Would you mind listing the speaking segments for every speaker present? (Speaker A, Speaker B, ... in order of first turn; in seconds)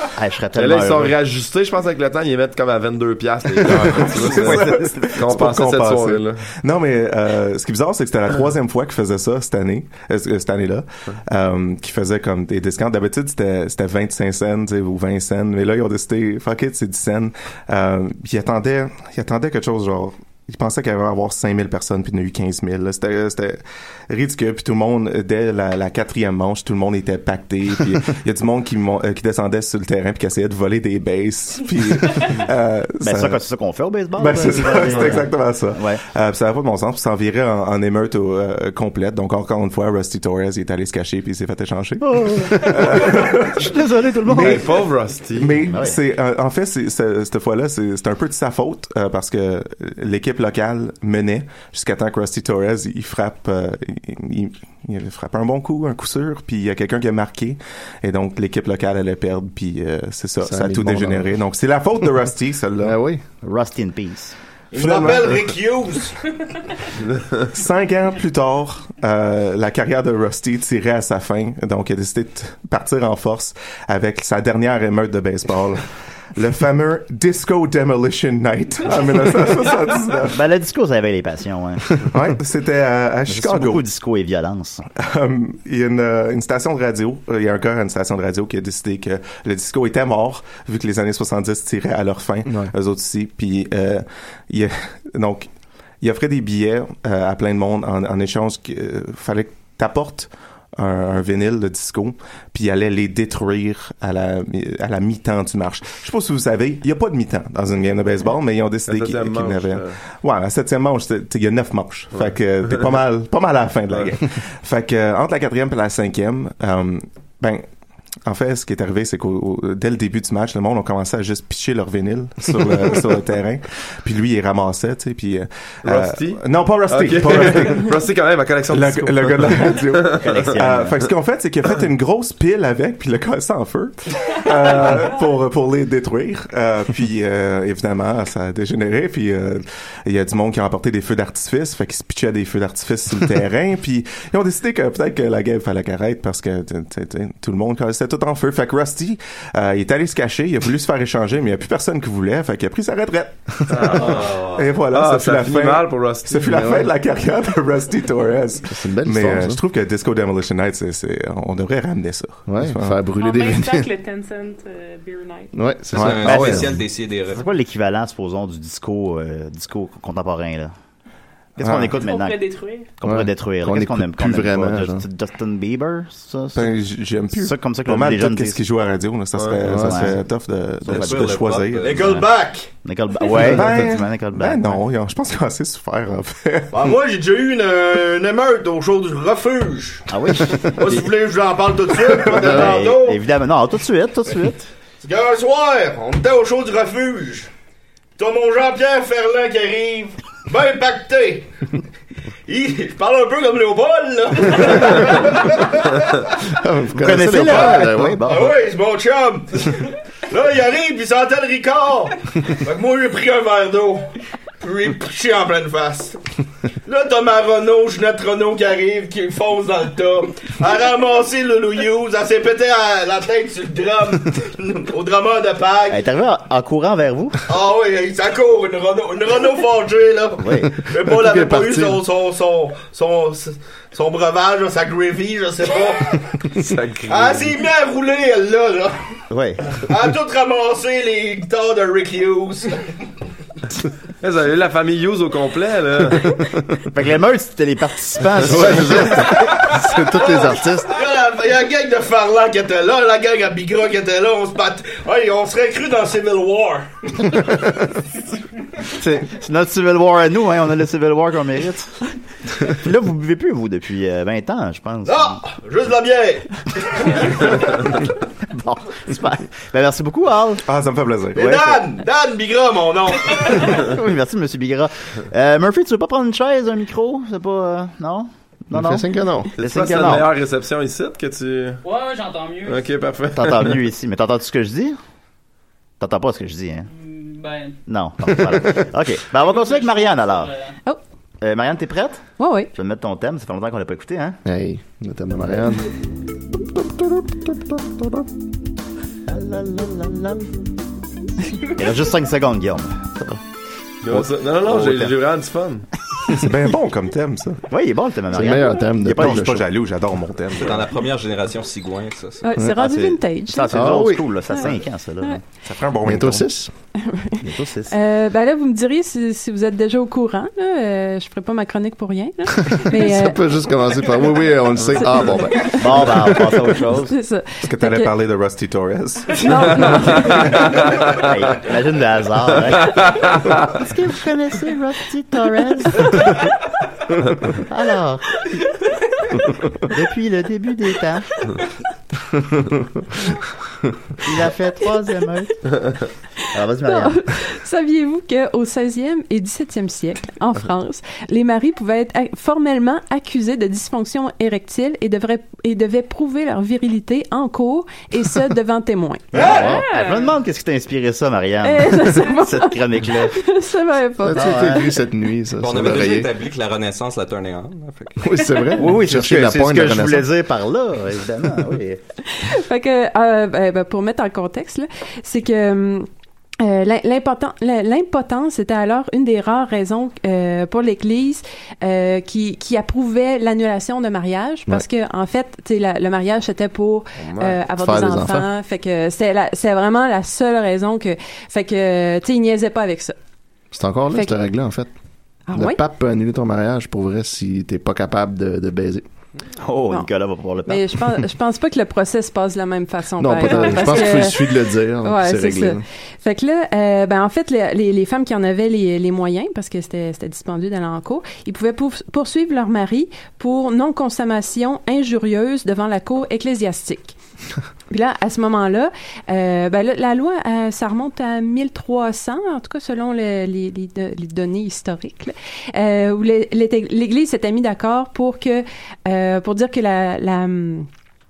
Speaker A: 0.1-1.1, 4.2-5.1, 33.0-36.0, 42.0-44.7, 45.7-46.0, 63.4-64.3, 80.3-82.0, 83.3-84.9, 130.1-131.0, 166.2-166.7, 167.3-170.7, 171.6-172.4, 173.0-176.7, 177.3-178.6, 179.7-180.2, 182.8-184.8, 190.1-191.0, 192.3-194.7, 206.9-208.5, 225.9-227.4, 230.4-230.7, 239.3-239.7, 246.9-249.4, 258.9-261.9, 262.6-265.4, 268.5-270.6, 271.4-271.8, 273.6-280.3, 283.3-285.0, 286.0-286.9, 287.9-290.5, 291.4-294.4, 299.3-300.5, 301.6-303.0, 304.1-305.1, 307.7-309.5, 312.7-315.4, 317.4-317.9, 325.6-327.1, 331.2-333.1, 333.7-336.3, 337.6-338.4, 339.8-341.3, 344.2-345.6, 346.5-347.2, 359.4-363.4, 364.3-364.9, 368.8-372.0, 399.6-400.8
Speaker B: 0.6-6.5, 44.3-45.7, 108.9-110.0, 112.2-112.7, 125.8-130.6, 153.7-156.7, 179.4-179.6, 236.5-237.6, 244.2-246.3, 279.6-281.8, 282.7-283.8, 304.0-305.9, 329.9-330.9, 387.2-387.6
Speaker C: 3.9-33.4, 34.2-43.7, 44.3-44.6, 45.3-63.0, 64.7-65.4, 67.5-80.4, 82.1-83.8, 85.0-95.5, 96.0-117.7, 118.2-128.0, 128.7-163.0, 166.0-166.3, 171.6-171.9, 176.5-182.0, 183.4-186.9, 270.6-271.5, 306.3-307.6, 309.1-310.9, 315.6-316.5, 327.6-329.4
Speaker D: 60.4-61.3, 62.8-63.2, 92.5-92.7, 156.5-156.9, 158.7-159.6, 162.5-163.9, 165.5-166.8, 173.0-175.0, 179.7-180.1, 192.3-192.8, 206.6-208.2, 231.1-232.0, 248.4-251.0, 278.7-279.5, 294.4-295.9, 296.7-298.2, 308.3-309.6, 313.7-314.2, 316.1-316.7, 322.6-326.7, 359.4-359.8, 364.2-366.3, 368.2-370.3, 387.8-388.5, 393.7-394.9, 395.5-399.0, 403.2-405.8
Speaker E: 64.7-66.2, 181.8-182.7, 186.7-190.1, 190.7-193.2, 195.0-197.5, 198.2-201.5, 202.5-206.1, 208.3-214.1, 214.6-216.2, 216.8-226.0, 227.5-236.2, 237.1-239.0, 239.8-242.7, 250.1-257.3, 265.1-267.6, 271.4-273.8, 359.3-359.7
Speaker F: 154.0-154.6, 165.9-167.4, 180.9-182.2, 310.6-312.5, 365.6-368.3
Speaker G: 163.2-165.6, 171.9-172.9, 359.6-360.3
Speaker H: 281.8-282.9, 286.9-287.8, 289.4-290.8
Speaker I: 292.4-292.7, 312.4-313.8, 314.5-315.4, 317.0-323.4, 325.0-325.8, 327.0-328.1, 329.3-330.5, 346.8-359.4, 361.6-365.0, 372.3-376.1, 376.6-393.1, 395.5-395.8, 400.7-417.2, 417.9-430.9